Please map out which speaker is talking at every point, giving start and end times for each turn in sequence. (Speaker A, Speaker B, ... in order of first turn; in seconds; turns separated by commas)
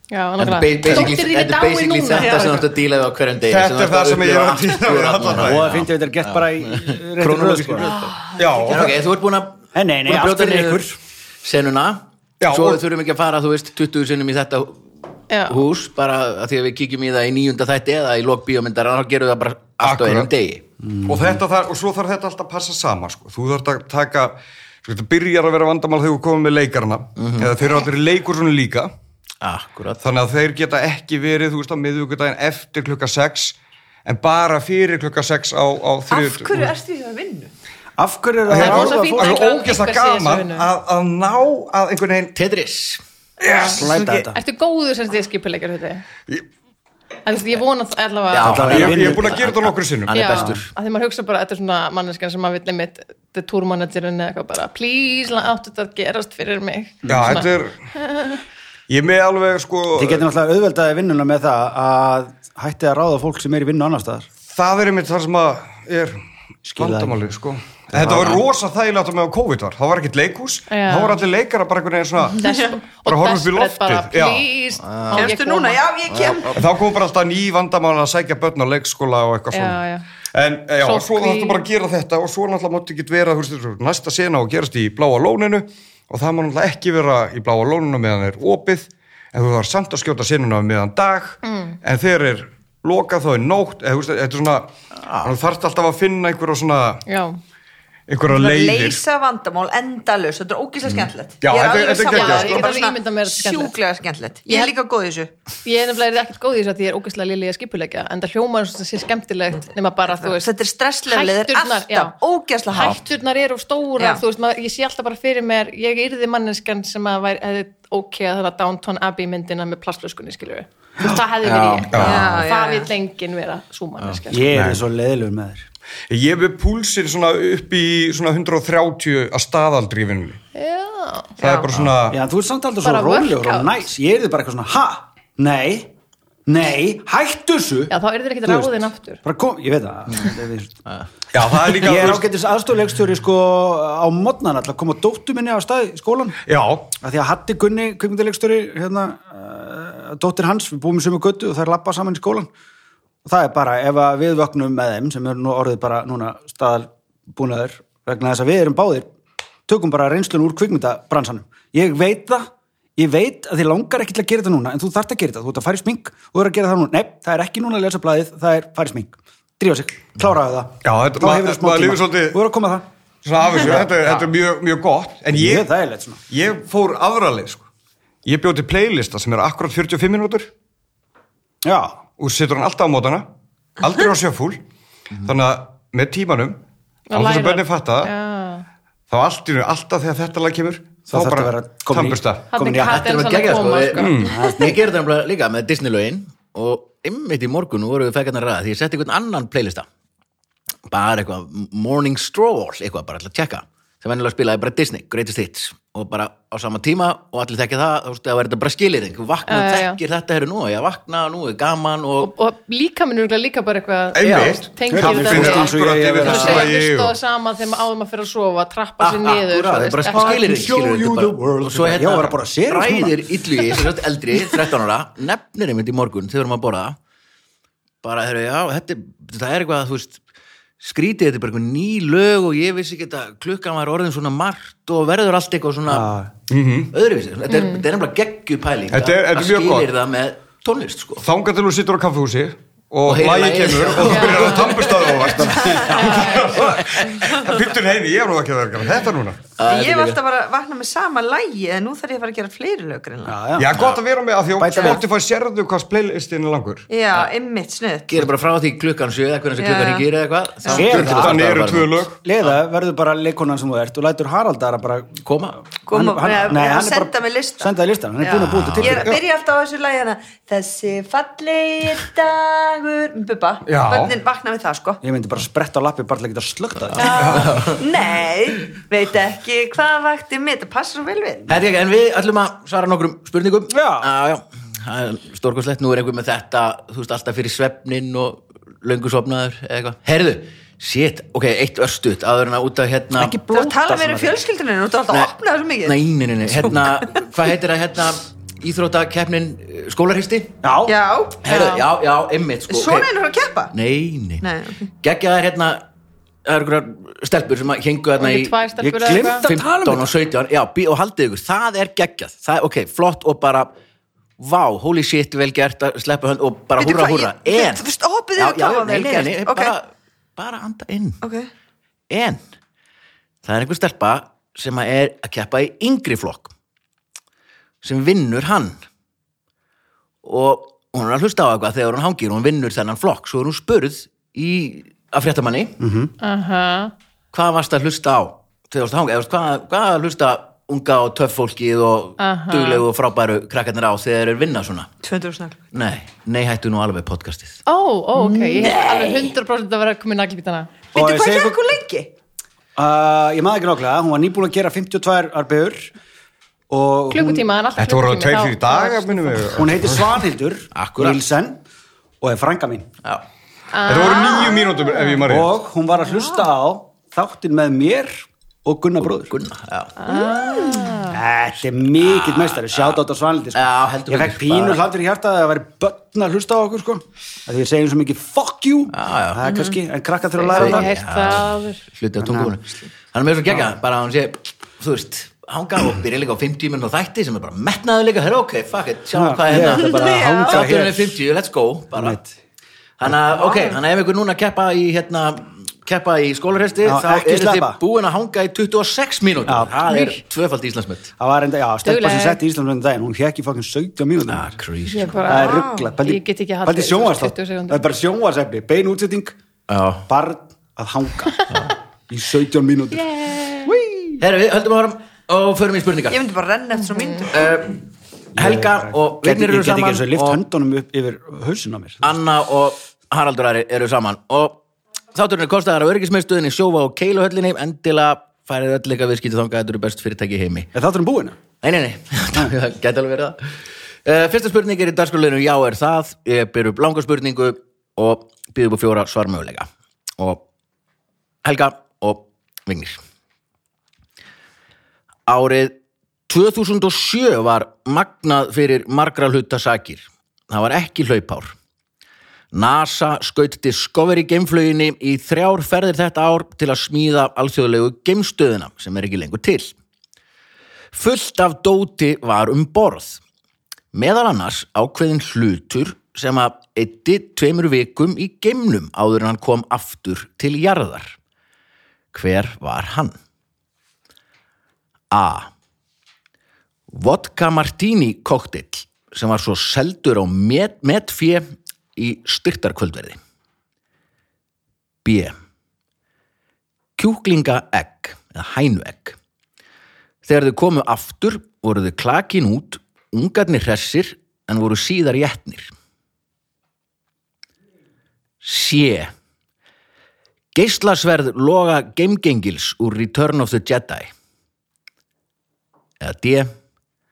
Speaker A: 0.1-2.6, Speaker B: 0.4-10.9, Speaker C: 2.2-2.6, Speaker D: 3.5-5.8, Speaker E: 5.3-7.9, Speaker C: 7.8-8.8, Speaker D: 8.3-9.0, Speaker E: 9.7-11.0, Speaker B: 11.4-14.9, Speaker D: 12.4-12.8, Speaker A: 15.3-15.6, Speaker B: 15.5-20.6, Speaker D: 19.8-20.3, Speaker E: 20.8-21.4, Speaker D: 21.0-28.9, Speaker B: 27.2-27.5, Speaker B: 29.4-30.0, Speaker D: 30.0-36.7, Speaker C: 36.1-37.5, Speaker E: 38.0-39.4, Speaker D: 38.5-42.3, Speaker A: 38.5-40.7, Speaker B: 42.4-43.0, Speaker D: 43.4-43.8, Speaker A: 43.4-46.0, Speaker E: 43.5-44.4, Speaker C: 43.6-44.2, Speaker A: 47.2-48.6, Speaker B: 48.3-50.7, Speaker E: 48.4-49.4, Speaker D: 48.4-50.2, Speaker A: 50.1-57.5, Speaker E: 57.0-57.4, Speaker D: 57.1-57.7, Speaker D: 58.9-60.2, Speaker E: 59.9-64.3, Speaker D: 64.5-74.5, Speaker E: 66.7-67.2, Speaker E: 67.9-68.4, Speaker A: 70.7-71.2, Speaker A: 72.4-75.8, Speaker C: 72.5-72.7, Speaker B: 74.8-75.3, Speaker C: 75.1-76.7, Speaker B: 76.1-76.6, Speaker D: 76.5-79.8, Speaker A: 79.5-80.0, Speaker D: 80.3-94.7, Speaker A: 80.8-81.7, Speaker A: 91.4-91.7, Speaker B: 95.0-95.3, Speaker D: 95.2-97.0, Speaker A: 97.1-97.4, Speaker D: 98.1-99.0, Speaker C: 98.3-105.3, Speaker D: 101.4-102.8, Speaker A: 102.1-103.7, Speaker A: 104.5-104.7, Speaker A: 105.6-110.5, Speaker C: 110.2-113.0, Speaker A: 111.1-112.2, Speaker A: 112.7-124.5, Speaker B: 121.4-122.4, Speaker D: 121.9-122.3, Speaker C: 122.0-122.9, Speaker E: 124.3-125.7, Speaker D: 124.5-124.8, Speaker D: 126.1-130.4, Speaker A: 130.5-131.7, Speaker D: 131.4-132.2, Speaker E: 132.1-135.9, Speaker A: 132.8-133.8, Speaker E: 136.4-137.9, Speaker A: 137.9-139.2, Speaker E: 138.4-140.8, Speaker D: 141.3-142.2, Speaker E: 141.8-146.4, Speaker D: 146.5-146.9, Speaker E: 147.0-152.5, Speaker E: 153.2-159.1, Speaker E: 159.7-172.8, Speaker D: 170.8-172.4, Speaker D: 173.2-175.7, Speaker E: 173.6-173.9, Speaker E: 175.3-176.2, Speaker D: 176.3-177.7, Speaker D: 178.2-180.5, Speaker E: 181.6-182.0, Speaker D: 182.2-183.2, Speaker D: 183.8-184.6, Speaker D: 185.2-186.6, Speaker A: 187.1-188.7, Speaker D: 187.1-188.1, Speaker D: 189.1-192.4, Speaker E: 191.1-193.1, Speaker A: 192.5-194.3, Speaker B: 192.8-199.9, Speaker D: 193.9-194.4, Speaker E: 194.2-194.9, Speaker B: 200.9-212.3, Speaker A: 209.5-210.0, Speaker A: 212.2-220.4, Speaker D: 214.1-217.1, Speaker E: 214.3-216.7, Speaker B: 219.0-227.0, Speaker E: 220.1-223.2, Speaker B: 228.0-230.2, Speaker B: 230.8-236.1, Speaker E: 235.9-236.3, Speaker D: 236.5-236.9, Speaker B: 236.9-241.2, Speaker A: 237.5-237.8, Speaker D: 238.9-239.9, Speaker D: 241.2-249.4, Speaker B: 243.1-245.6, Speaker A: 244.1-244.6, Speaker E: 245.7-246.9, Speaker A: 245.9-246.6, Speaker B: 249.6-250.2, Speaker C: 249.6-253.4, Speaker E: 253.2-253.8, Speaker D: 253.6-256.9, Speaker E: 254.6-255.0, Speaker C: 256.9-258.2, Speaker B: 258.1-262.1, Speaker C: 259.6-260.1, Speaker D: 260.7-262.2, Speaker E: 260.7-261.5, Speaker E: 262.2-269.2, Speaker B: 265.2-265.6, Speaker C: 265.9-275.0, Speaker B: 268.6-268.9, Speaker D: 273.6-274.1, Speaker E: 275.0-277.4, Speaker B: 276.9-277.8, Speaker C: 277.0-281.5, Speaker D: 277.2-277.5, Speaker B: 281.5-293.4, Speaker E: 283.7-284.1, Speaker E: 293.1-294.4, Speaker C: 293.5-297.2, Speaker B: 295.1-300.5, Speaker E: 300.6-300.9, Speaker C: 300.8-301.4, Speaker B: 301.4-303.1, Speaker A: 301.5-301.8, Speaker C: 302.7-303.7, Speaker B: 303.7-304.4, Speaker C: 304.4-304.8, Speaker B: 305.0-305.8, Speaker B: 306.4-313.7, Speaker A: 308.2-309.5, Speaker E: 308.8-310.1, Speaker B: 314.4-321.2, Speaker C: 316.8-319.7, Speaker C: 321.2-321.5, Speaker B: 322.1-322.4, Speaker B: 323.4-326.5, Speaker B: 327.8-328.8, Speaker B: 330.2-335.8, Speaker E: 335.8-336.1, Speaker A: 336.2-336.9, Speaker B: 337.3-344.9, Speaker A: 342.2-342.8, Speaker C: 345.0-345.6, Speaker B: 345.7-347.6, Speaker A: 347.6-350.7, Speaker C: 348.1-349.3, Speaker C: 350.9-352.1, Speaker E: 350.9-351.6, Speaker E: 352.8-355.9, Speaker E: 356.7-357.4, Speaker A: 357.1-359.6, Speaker D: 357.8-360.1, Speaker E: 359.6-361.6, Speaker B: 360.7-361.2, Speaker E: 362.2-362.9, Speaker A: 363.7-365.2, Speaker D: 363.8-365.5, Speaker E: 365.3-369.3, Speaker B: 369.1-369.9, Speaker A: 370.0-371.2, Speaker C: 370.1-371.0, Speaker E: 371.1-380.9, Speaker B: 371.9-373.0, Speaker B: 373.5-374.8, Speaker B: 378.9-379.4, Speaker C: 379.4-379.8, Speaker A: 380.4-381.8, Speaker B: 380.6-392.2, Speaker E: 382.2-382.6, Speaker E: 389.1-391.2, Speaker C: 389.5-390.6, Speaker E: 391.9-392.3, Speaker B: 393.0-401.1, Speaker E: 396.8-397.8, Speaker E: 399.4-400.1, Speaker A: 399.8-400.2, Speaker E: 401.2-404.6, Speaker A: 401.8-402.4, Speaker B: 404.3-405.2, Speaker A: 404.9-407.8, Speaker E: 405.2-409.4, Speaker C: 405.3-405.9, Speaker B: 409.7-410.1, Speaker E: 410.1-411.5, Speaker E: 412.1-414.2, Speaker A: 412.9-413.7, Speaker B: 414.2-416.2, Speaker C: 416.1-417.5, Speaker B: 417.3-417.8, Speaker E: 418.3-422.1, Speaker B: 418.4-420.4, Speaker B: 422.0-424.6, Speaker B: 425.1-430.7, Speaker E: 430.7-431.4, Speaker B: 431.6-433.5, Speaker B: 434.0-440.4, Speaker B: 441.4-443.0, Speaker B: 445.3-445.8, Speaker B: 446.3-451.5, Speaker B: 452.5-459.7, Speaker B: 460.9-463.2, Speaker B: 463.9-471.2, Speaker B: 472.1-473.1, Speaker B: 475.1-475.5, Speaker B: 476.9-483.2, Speaker B: 485.0-485.3, Speaker B: 487.0-489.2, Speaker B: 490.2-495.7, Speaker B: 498.4-499.1, Speaker B: 500.5-504.1, Speaker B: 506.0-506.5